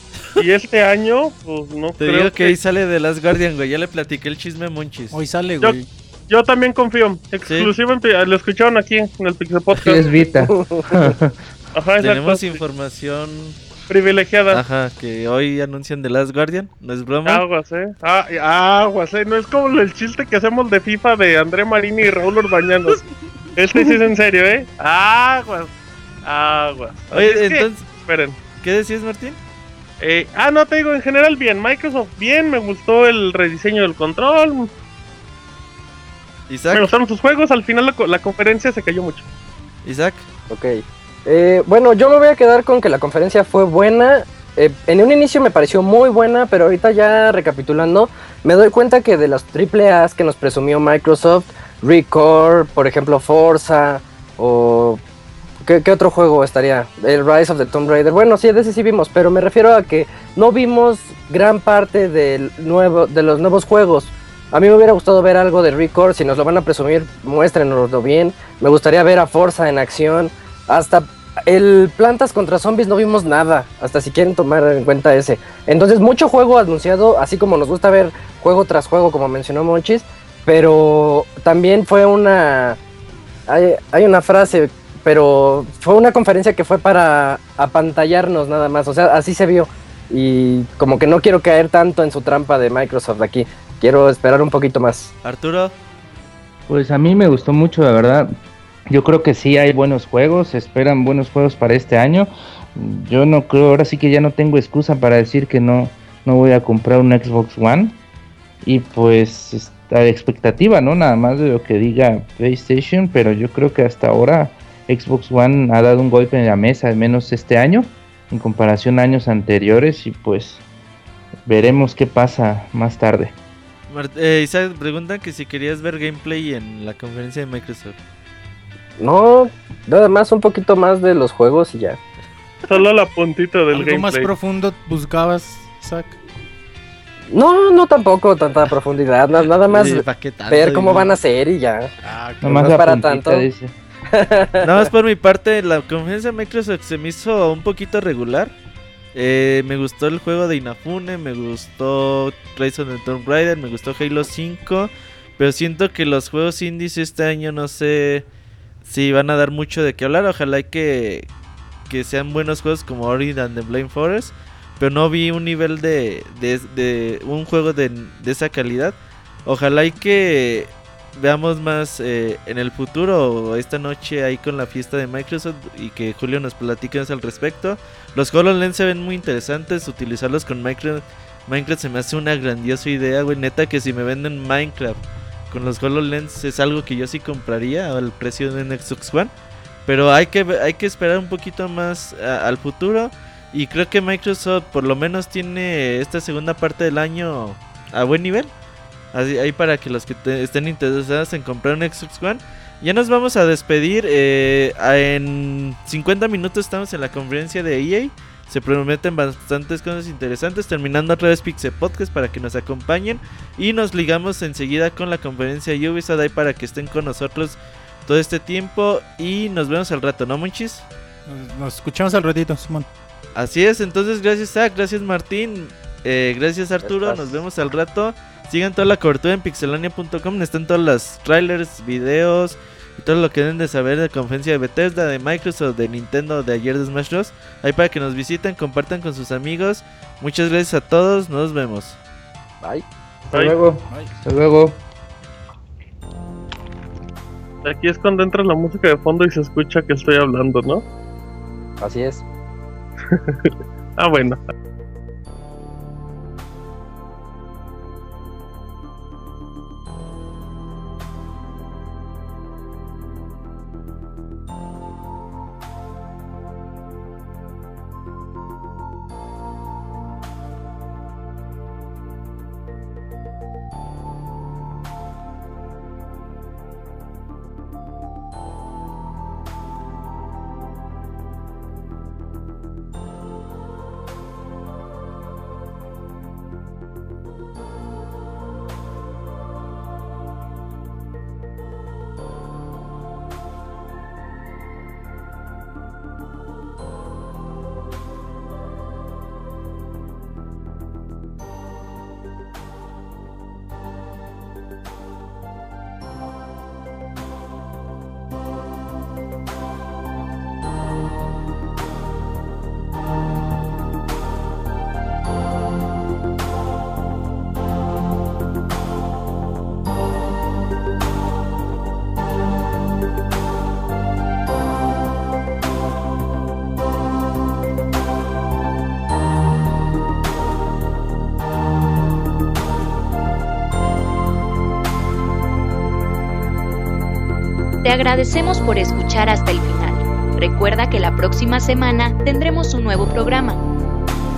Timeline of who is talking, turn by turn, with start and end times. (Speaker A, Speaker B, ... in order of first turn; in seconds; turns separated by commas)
Speaker A: 0.4-2.5, Speaker B: 2.0-5.2, Speaker C: 5.1-5.9, Speaker A: 6.3-10.1, Speaker B: 7.5-7.7, Speaker D: 9.7-11.4, Speaker E: 10.5-11.1, Speaker A: 11.7-12.6, Speaker B: 12.0-13.6, Speaker A: 13.9-14.6, Speaker B: 14.5-17.4, Speaker A: 17.2-23.0, Speaker A: 23.6-25.7, Speaker A: 26.2-28.4, Speaker B: 27.1-27.9, Speaker B: 28.6-29.4, Speaker A: 30.0-34.7, Speaker B: 36.5-36.9, Speaker A: 36.7-39.2, Speaker B: 39.8-40.2, Speaker E: 40.5-55.0, Speaker E: 55.6-82.8, Speaker E: 83.5-95.1, Speaker B: 95.2-95.7, Speaker D: 96.7-98.3, Speaker D: 98.9-108.0, Speaker D: 108.6-120.6, Speaker D: 121.5-123.3, Speaker B: 123.9-128.0, Speaker E: 129.0-132.0, Speaker A: 132.7-134.3, Speaker C: 133.7-136.2, Speaker E: 137.3-141.9, Speaker B: 139.7-141.1, Speaker C: 139.8-141.1, Speaker C: 142.0-142.7, Speaker D: 142.4-143.7, Speaker E: 142.5-143.5, Speaker E: 144.1-144.9, Speaker B: 144.6-148.5, Speaker B: 149.1-158.2, Speaker B: 158.8-161.3, Speaker B: 161.9-168.9, Speaker B: 169.5-185.0, Speaker B: 185.5-189.3, Speaker B: 189.8-198.5, Speaker B: 199.1-220.8, Speaker C: 221.3-222.9, Speaker B: 223.3-242.0, Speaker E: 226.8-227.4, Speaker D: 243.3-244.8, Speaker C: 243.9-244.1, Speaker A: 247.6-250.8, Speaker E: 251.8-252.2, Speaker A: 253.1-254.4, Speaker F: 337.8-343.6